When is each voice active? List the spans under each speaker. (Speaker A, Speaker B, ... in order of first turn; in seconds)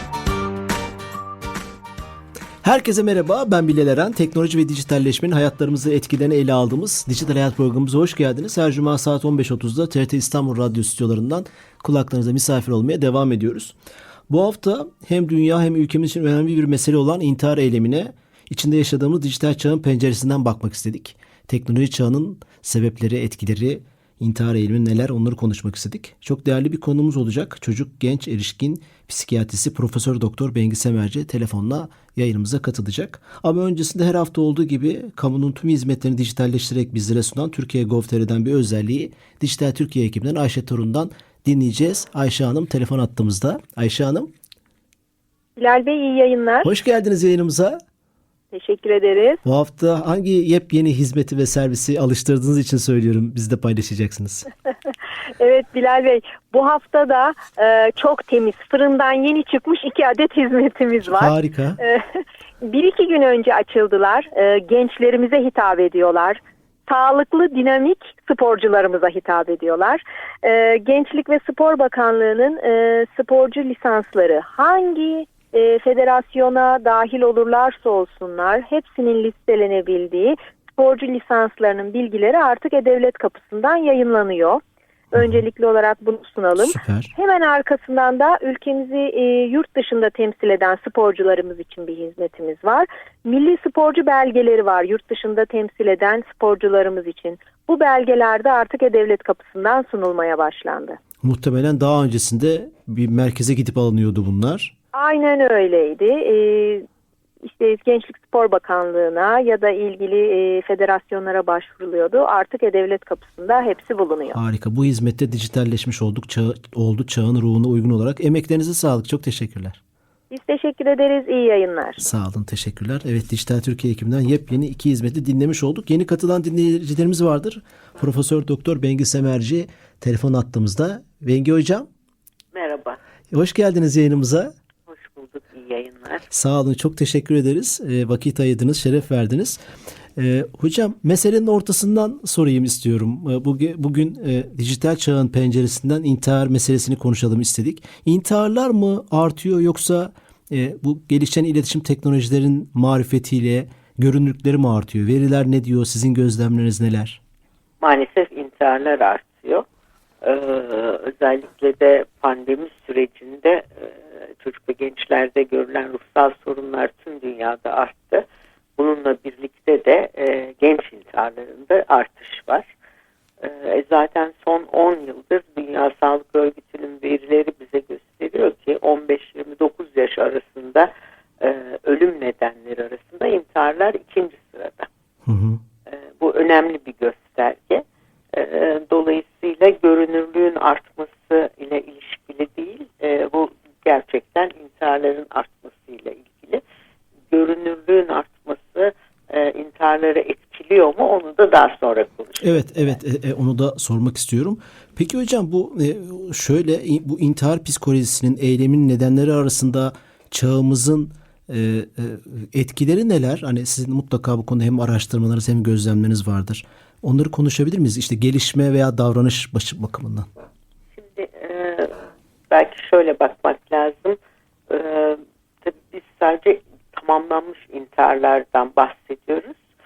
Speaker A: 2.6-13.8, 14.3-44.3, 46.6-47.8, 49.4-54.5, 61.0-61.8, 85.1-85.4, 86.6-87.1, 101.2-104.7, 114.3-119.8, 122.0-131.9, 133.3-134.5, 136.3-139.6, 140.2-157.2, 185.3-185.6, 202.4-220.3
Speaker B: 45.6-46.7, 48.5-49.4, 55.4-84.6, 85.1-101.0, 104.9-106.8, 107.4-114.4, 120.3-122.0
Speaker C: 132.5-133.0, 134.9-136.3, 157.8-159.7, 160.2-168.2, 168.8-172.7, 173.4-184.9, 185.9-196.6, 197.3-203.0, 220.9-221.9, 222.5-224.2, 224.7-229.6